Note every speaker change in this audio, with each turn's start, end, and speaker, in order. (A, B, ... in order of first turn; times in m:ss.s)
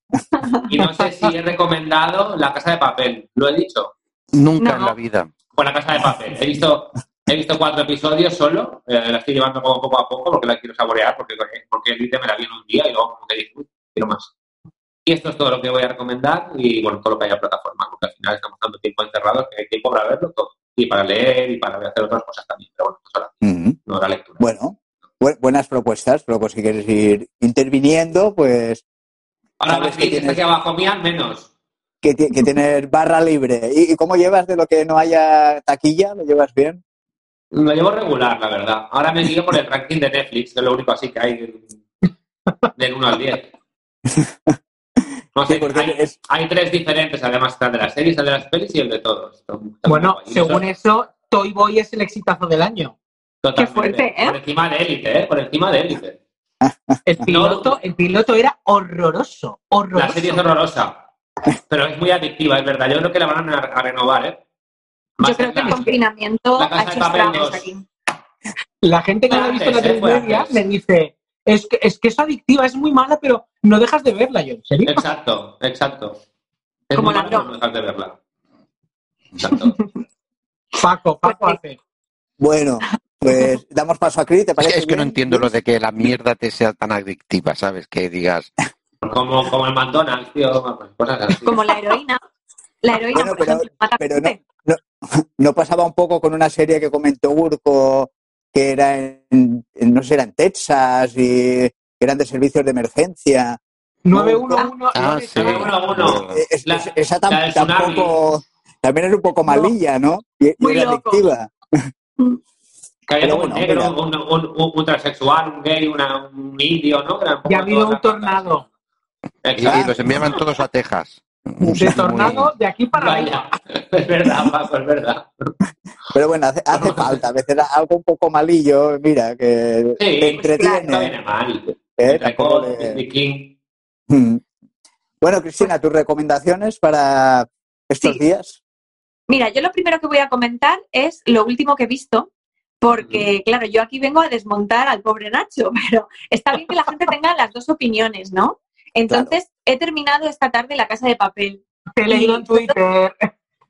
0:00.6-0:03.9 A
0:00.8-0:01.1 B
0:04.3-0:05.3 C
0:04.6-0:05.0 D
0:05.5-0:14.3 A
0:15.1-0:24.5 A
0:23.4-0:23.8 E
0:24.4-0:28.8 E
0:29.6-0:31.5 A
0:29.7-0:30.4 E
0:32.0-0:36.8 E
0:37.5-0:41.7 A
0:42.8-0:43.5 A
0:44.1-0:44.5 E
0:45.4-0:50.6 A
0:45.5-0:46.1 E
0:49.9-0:53.0 B
0:53.4-0:56.2 A
0:53.6-0:54.4 D
0:56.6-0:57.0 E
0:57.0-1:00.4 B
0:57.2-0:57.7 A
0:59.9-1:01.0 A
1:01.6-1:04.4 A
1:05.2-1:05.9 A
1:05.2-1:07.8 D
1:05.6-1:06.0 B
1:06.6-1:07.7 A
1:08.8-1:15.0 B
1:09.3-1:10.6 A
1:14.9-1:16.2 A
1:16.9-1:18.2 A
1:17.0-1:17.5 D
1:19.4-1:19.8 A
1:20.8-1:21.8 B
1:21.2-1:21.6 D
1:22.4-1:25.5 E
1:24.6-1:28.5 C
1:29.0-1:31.6 A
1:31.5-1:32.2 D
1:32.8-1:34.4 D
1:33.1-1:43.6 E
1:44.0-1:45.7 B
1:44.1-1:44.6 E
1:44.9-1:46.4 C
1:45.4-1:48.2 A
1:46.0-1:51.5 E
1:49.5-1:49.7 D
1:50.6-1:51.3 D
1:53.1-1:58.5 A
1:53.2-1:53.9 E
1:57.5-1:58.6 B
1:59.4-2:00.4 A
1:59.6-2:02.5 C
1:59.7-2:00.0 E
2:01.6-2:02.0 E
2:01.7-2:03.6 B
2:03.0-2:05.5 A
2:06.1-2:11.1 E
2:10.0-2:13.6 A
2:10.4-2:10.8 D
2:12.0-2:13.0 E
2:14.1-2:14.4 E
2:15.2-2:18.6 E
2:19.3-2:22.3 D
2:22.8-2:32.8 D
2:23.0-2:23.3 A
2:29.1-2:29.4 E
2:32.0-2:33.3 B